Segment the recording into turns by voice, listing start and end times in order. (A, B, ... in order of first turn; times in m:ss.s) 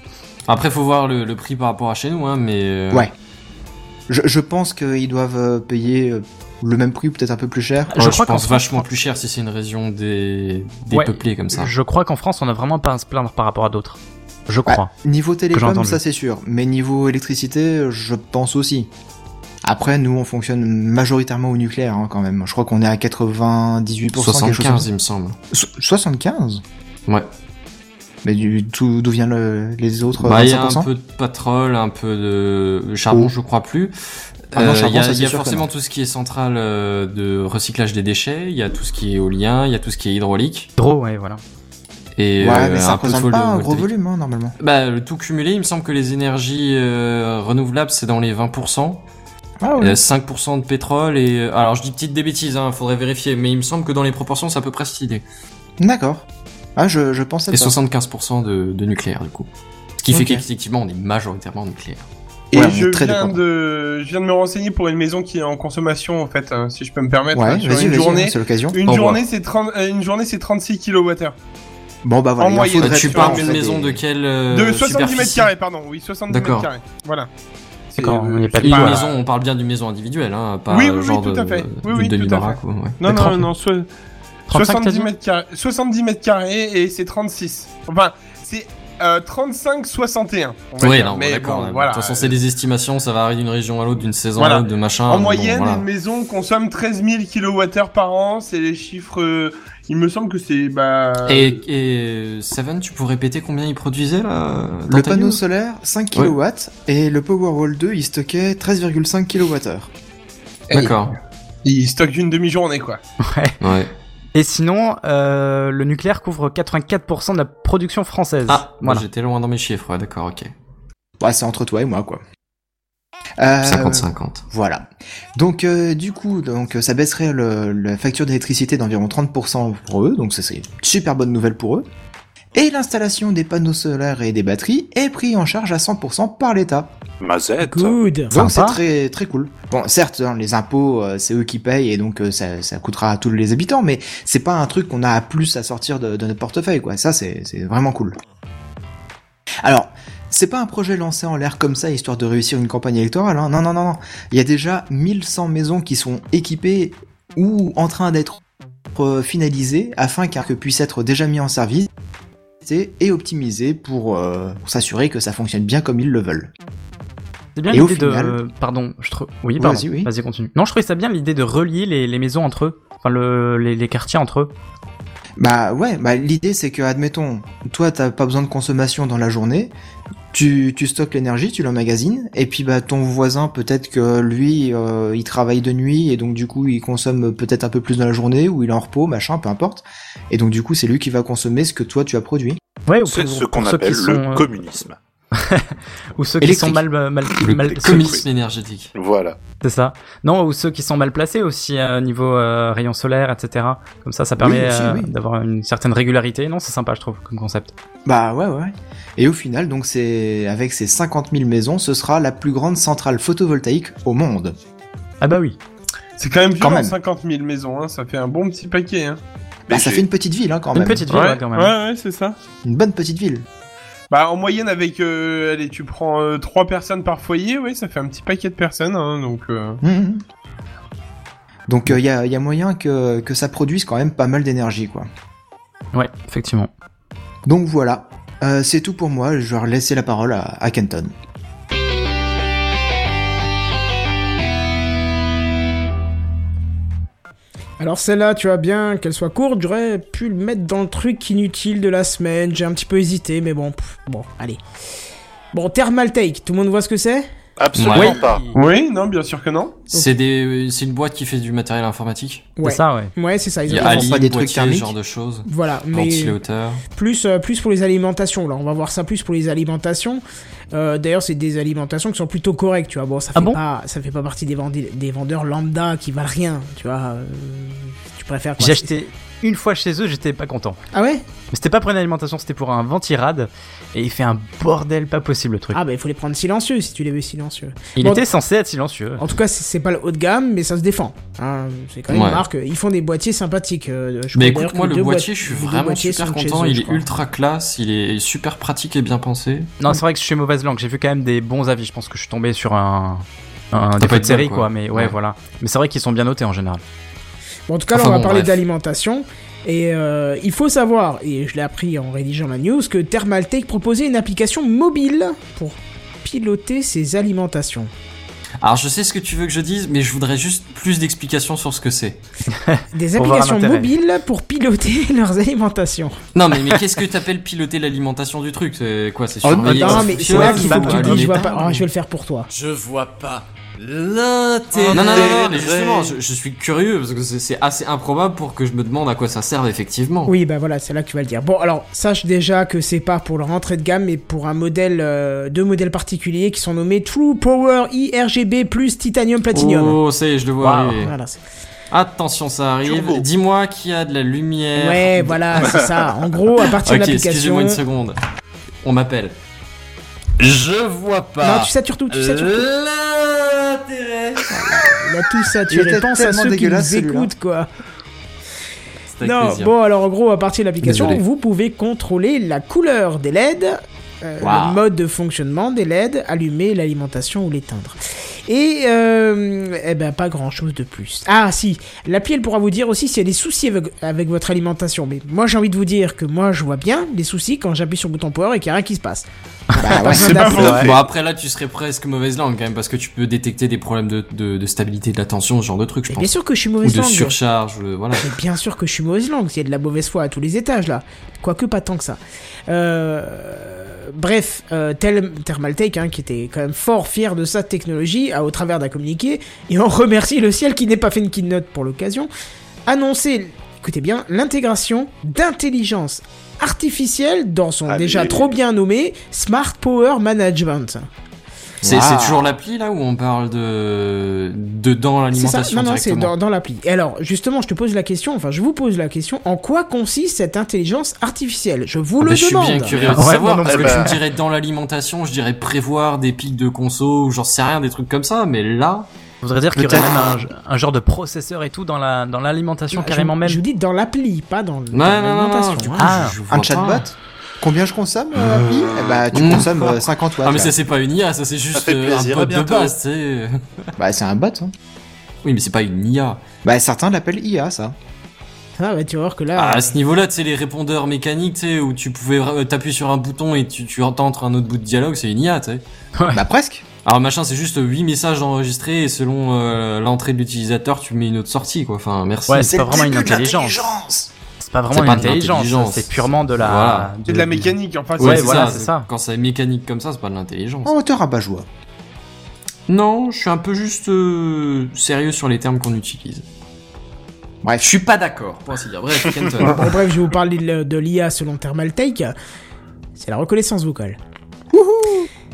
0:00.5-0:03.1 A
0:04.1-0:07.9 B
0:07.9-0:08.8 C
0:08.0-0:11.7 A
0:10.9-0:14.9 C
0:14.6-0:18.9 B
0:15.5-0:16.0 C
0:19.6-0:24.9 B
0:24.1-0:25.4 A
0:25.5-0:26.6 B
0:28.2-0:30.9 B
0:30.2-0:33.9 A
0:34.5-0:40.7 A
0:34.5-0:35.7 B
0:40.8-0:41.4 C
0:42.2-0:43.9 A
0:42.4-0:44.5 B
0:44.6-0:49.0 A
0:49.6-0:50.0 B
0:49.8-0:55.2 A
0:55.8-0:56.2 B
0:56.8-0:57.8 B
0:57.5-0:59.5 A
1:00.0-1:02.0 A
1:00.1-1:00.4 B
1:02.5-1:11.3 D
1:02.5-1:03.4 B
1:07.3-1:08.8 B
1:08.9-1:09.2 A
1:12.0-1:14.0 B
1:12.4-1:13.6 D
1:12.8-1:15.5 A
1:14.5-1:17.3 D
1:16.3-1:16.7 A
1:17.9-1:19.1 D
1:18.0-1:19.0 C
1:18.6-1:23.0 A
1:20.7-1:23.9 D
1:23.0-1:23.5 C
1:24.5-1:25.1 C
1:24.5-1:32.4 D
1:30.8-1:35.8 A
1:34.4-1:41.6 D
1:41.3-1:45.4 A
1:44.9-1:49.9 B
1:50.7-1:51.0 D
1:50.7-1:51.1 A
1:51.6-1:53.0 D
1:53.2-1:53.6 C
1:53.6-1:53.9 A
1:54.3-1:59.0 C
1:58.5-2:00.5 A
2:01.2-2:02.2 B
2:03.4-2:11.8 B
2:03.6-2:04.4 A
2:12.5-2:16.9 B
2:17.2-2:18.0 E
2:17.6-2:18.3 F
2:18.3-2:18.8 C
2:18.3-2:28.2 B
2:29.6-2:38.4 B
2:38.9-2:41.9 B
2:42.6-2:46.5 B
2:47.6-2:54.5 C
2:47.7-2:48.4 B
2:49.6-2:50.1 B
2:55.4-2:59.7 B
3:00.3-3:12.6 B
3:12.8-3:14.5 C
3:13.0-3:15.0 E
3:15.3-3:18.2 C
3:16.4-3:16.8 B
3:17.4-3:18.9 A
3:17.6-3:18.2 E
3:18.9-3:19.4 E
3:19.6-3:27.7 C
3:24.4-3:25.1 B
3:28.0-3:34.6 B
3:35.2-3:35.6 C
3:36.2-3:39.2 D
3:36.6-3:37.0 B
3:39.7-3:41.1 B
3:39.7-3:40.0 E
3:40.7-3:41.8 C
3:41.1-3:42.4 D
3:42.6-3:43.4 B
3:44.1-3:49.8 D
3:49.8-3:50.2 B
3:51.7-3:55.1 B
3:55.9-3:56.7 C
3:57.4-4:01.1 B
4:07.8-4:14.6 F
4:15.5-4:17.3 F
4:17.6-4:18.5 E
4:17.7-4:18.2 A
4:17.9-4:18.5 C
4:18.5-4:19.8 D
4:19.9-4:22.5 A
4:22.6-4:24.1 F
4:22.6-4:23.1 C
4:23.7-4:26.8 A
4:23.7-4:24.9 B
4:25.4-4:26.4 F
4:26.9-4:38.9 F
4:38.6-4:40.8 C
4:40.9-4:41.2 F
4:41.5-4:45.8 C
4:45.7-4:48.2 F
4:48.0-4:49.2 C
4:49.2-4:57.0 F
4:52.1-4:52.4 A
4:54.3-4:59.7 A
4:59.8-5:06.8 C
5:04.0-5:05.2 A
5:07.7-5:17.9 F
5:07.9-5:08.6 A
5:18.6-5:22.2 A
5:22.5-5:23.9 C
5:22.9-5:26.2 F
5:26.3-5:31.4 A
5:29.4-5:30.1 B
5:29.6-5:32.5 F
5:29.7-5:31.8 C
5:32.5-5:40.3 A
5:34.7-5:35.2 D
5:34.8-5:36.2 E
5:40.2-5:50.0 F
5:49.5-5:51.1 A
5:50.6-5:51.1 C
5:51.0-5:51.4 F
5:51.9-5:55.7 A
5:52.8-5:53.2 E
5:54.8-5:57.8 F
5:55.7-5:56.1 E
5:56.8-5:58.2 A
5:58.8-5:59.3 A
6:00.4-6:04.4 A
6:01.4-6:02.7 F
6:04.5-6:07.7 F
6:05.7-6:07.3 B
6:09.1-6:09.7 A
6:09.2-6:29.2 F
6:10.9-6:11.2 A
6:14.4-6:14.8 B
6:29.8-6:30.5 B
6:29.8-6:30.8 F
6:30.1-6:30.8 D
6:30.5-6:31.0 E
6:30.6-6:38.3 A
6:36.1-6:37.3 F
6:38.2-6:52.3 F
6:52.8-7:01.1 F
6:57.8-6:58.5 E
7:01.8-7:02.5 B
7:01.8-7:06.3 A
7:05.3-7:13.0 F
7:12.2-7:19.1 A
7:13.0-7:14.1 C
7:13.0-7:14.1 E
7:19.4-7:23.6 C
7:19.7-7:20.4 B
7:22.9-7:26.2 F
7:24.9-7:27.0 A
7:26.0-7:26.4 C
7:26.5-7:30.7 B
7:28.4-7:33.9 A
7:31.7-7:32.9 E
7:34.0-7:34.7 B
7:35.4-7:36.4 A
7:36.6-7:38.0 B
7:38.8-7:39.9 F
7:39.6-7:45.8 A
7:46.2-7:46.4 C
7:46.3-7:46.8 B
7:47.0-7:52.8 A
7:52.5-7:53.9 C
7:52.6-7:54.3 B
7:54.6-7:59.1 C
7:54.9-7:57.1 A
7:57.2-7:58.8 D
7:58.2-8:00.9 A
8:00.8-8:01.7 B
8:02.9-8:06.4 A
8:07.6-8:07.9 B
8:07.8-8:09.9 A
8:09.6-8:12.3 F
8:13.2-8:14.2 F
8:14.7-8:15.3 B